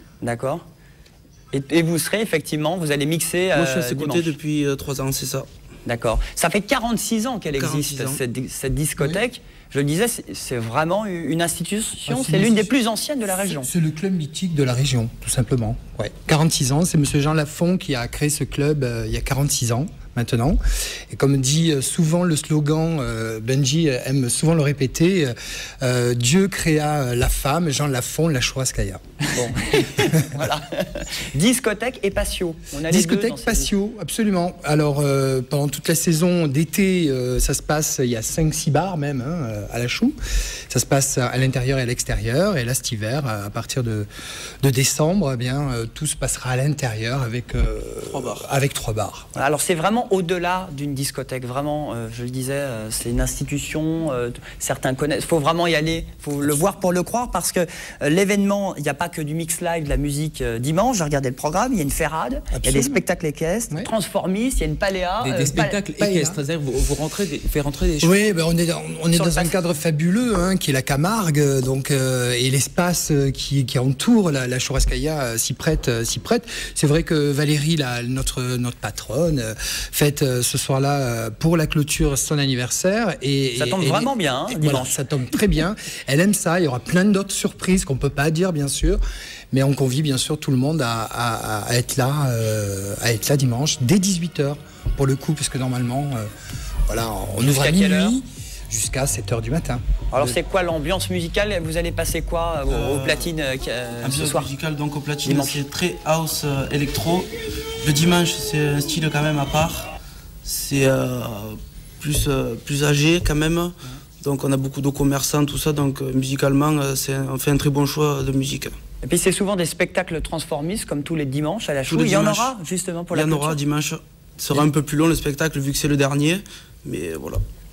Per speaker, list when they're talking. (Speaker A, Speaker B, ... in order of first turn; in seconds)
Speaker A: 0.2-0.6, 1.5-4.4, 5.9-13.7, 29.3-33.7, 49.4-65.8, 69.1-69.5, 83.6-85.0, 97.4-98.2, 100.1-104.5, 105.2-105.7, 119.0-123.6
Speaker B: 3.5-5.5, 7.6-8.2, 48.1-48.5, 102.7-103.3, 104.0-107.3, 107.8-109.9, 110.5-118.8, 121.9-122.5, 123.1-127.4
Speaker C: 12.1-12.7, 13.4-29.2, 30.0-30.4, 32.9-40.1, 40.7-44.1, 44.6-49.3, 62.5-63.0, 66.0-66.4, 68.0-89.0, 89.5-96.3, 96.9-100.4
Speaker D: 65.2-68.2